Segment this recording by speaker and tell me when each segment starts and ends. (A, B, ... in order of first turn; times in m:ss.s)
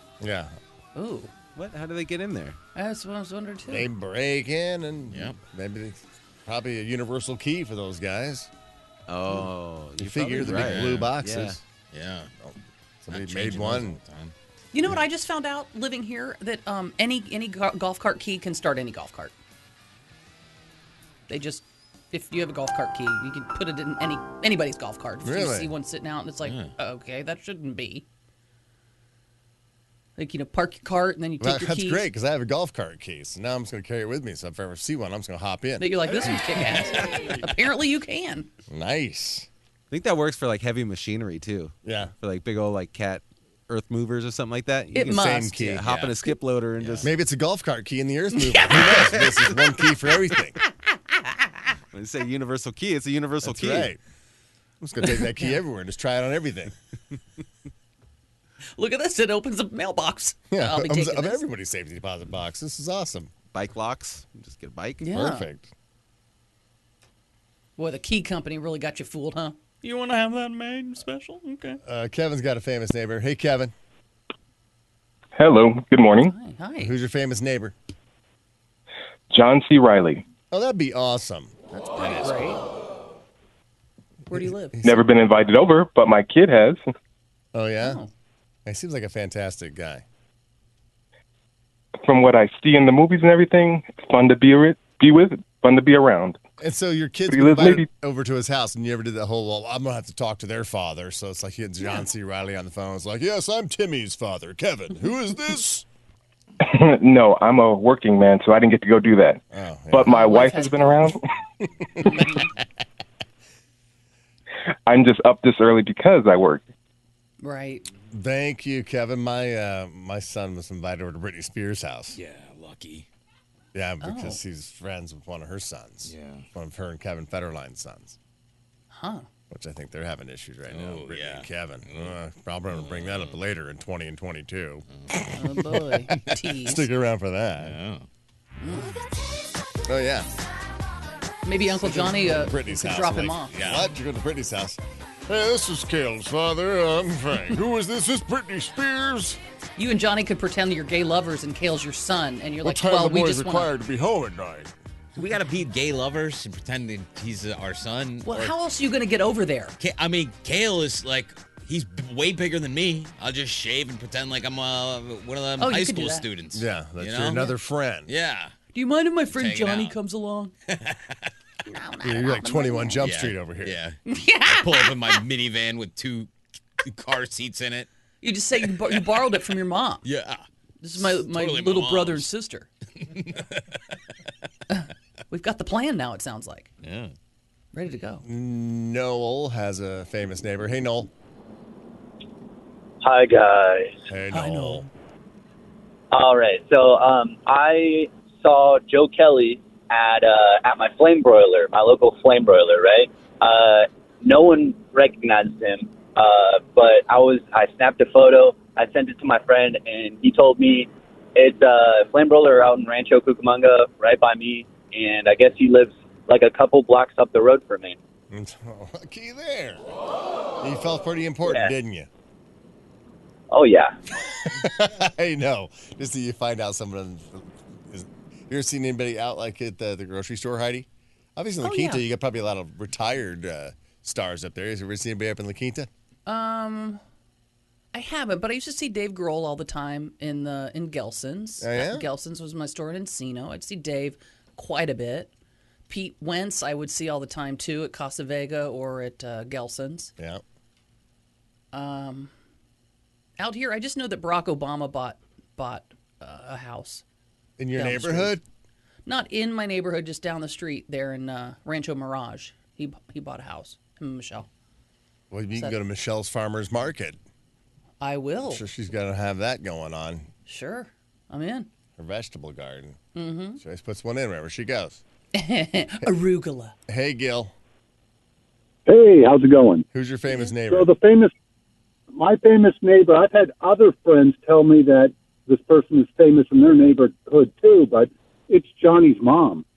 0:00.2-0:00.5 A
0:00.9-0:01.3 B
0:01.5-0:02.6 C
0:02.7-0:03.9 B
0:03.7-0:08.5 A
0:05.1-0:05.4 D
0:09.1-0:11.6 C
0:10.0-0:11.6 A
0:10.5-0:11.0 D
0:11.9-0:12.3 D
0:12.4-0:14.0 A
0:13.1-0:14.3 D
0:14.7-0:19.3 B
0:21.3-0:28.0 B
0:25.2-0:25.7 A
0:26.4-0:26.7 D
0:30.2-0:32.1 B
0:31.4-0:36.6 A
0:35.8-0:38.5 B
0:38.7-0:39.5 A
0:39.9-0:47.1 C
0:41.8-0:42.1 A
0:44.9-0:45.6 B
0:45.1-0:45.8 A
0:45.8-0:46.1 D
0:46.8-0:47.1 D
0:47.0-0:50.6 A
0:48.6-0:49.1 B
0:51.9-0:53.9 C
0:53.4-0:54.0 A
0:54.8-0:56.7 A
0:58.7-1:01.4 B
1:00.5-1:03.3 A
1:03.5-1:05.0 C
1:05.0-1:05.5 B
1:05.1-1:05.7 A
1:07.8-1:11.8 B
1:11.8-1:13.7 A
1:15.4-1:16.3 E
1:16.1-1:17.0 B
1:16.8-1:17.8 A
1:19.3-1:20.2 E
1:20.5-1:21.5 A
1:21.7-1:22.6 B
1:24.3-1:24.8 B
1:24.3-1:24.9 A
1:24.8-1:26.9 E
1:27.5-1:28.0 A
1:27.8-1:28.1 B
1:28.6-1:30.0 A
1:32.0-1:36.4 E
1:36.6-1:45.8 A
1:37.3-1:37.8 E
1:46.6-1:49.4 E
1:49.5-1:50.5 A
1:49.9-1:51.2 E
1:50.1-1:51.1 B
1:51.6-1:52.6 A
1:52.1-1:52.4 B
1:54.9-1:56.6 E
1:57.4-1:57.9 B
1:58.1-2:02.2 A
2:02.1-2:03.0 D
2:03.7-2:08.2 A
2:04.0-2:04.4 B
2:06.0-2:06.4 D
2:08.9-2:09.3 B
2:09.5-2:14.8 A
2:10.7-2:12.2 D
2:12.7-2:13.4 D
2:15.3-2:16.9 B
2:15.7-2:17.8 A
2:17.6-2:18.1 D
2:18.6-2:19.0 B
2:19.8-2:20.3 A
2:21.4-2:23.5 B
2:21.7-2:29.4 A
2:23.5-2:23.9 D
2:29.8-2:33.7 B
2:32.6-2:34.7 A
2:35.2-2:38.5 D
2:38.2-2:39.8 B
2:39.8-2:47.6 D
2:45.6-2:46.3 B
2:46.5-2:48.1 A
2:48.1-2:48.5 D
2:48.7-2:50.5 B
2:49.3-2:50.0 D
2:50.8-2:51.3 D
2:51.6-2:53.0 B
2:52.0-2:53.8 A
2:53.0-2:56.3 D
2:54.0-2:55.2 B
2:56.8-2:57.9 D
2:58.2-3:00.0 B
2:58.6-2:59.2 D
3:00.0-3:02.3 D
3:00.8-3:02.7 B
3:03.0-3:03.6 D
3:04.7-3:06.7 B
3:06.8-3:07.1 D
3:07.7-3:08.2 B
3:08.2-3:11.1 A
3:13.0-3:14.0 F
3:14.1-3:14.8 A
3:14.3-3:14.9 B
3:16.1-3:38.0 F
3:38.3-3:39.8 A
3:40.6-3:42.1 A
3:41.4-3:41.7 F
3:43.5-3:44.0 F
3:44.4-3:55.9 A
3:51.6-3:52.0 B
3:56.2-3:57.0 B
3:57.9-4:05.3 B
4:01.6-4:02.1 A
4:05.9-4:10.1 B
4:11.7-4:12.3 B
4:13.4-4:17.0 B
4:17.6-4:18.4 A
4:17.7-4:18.4 B
4:19.0-4:24.5 B
4:25.3-4:27.2 A
4:28.0-4:28.6 B
4:28.4-4:30.3 A
4:30.4-4:31.7 B
4:32.0-4:33.0 A
4:33.1-4:33.6 B
4:33.6-4:35.0 A
4:35.3-4:36.7 B
4:36.9-4:37.5 A
4:38.9-4:39.8 G
4:39.9-4:40.9 A
4:40.4-4:41.3 G
4:42.1-4:49.6 G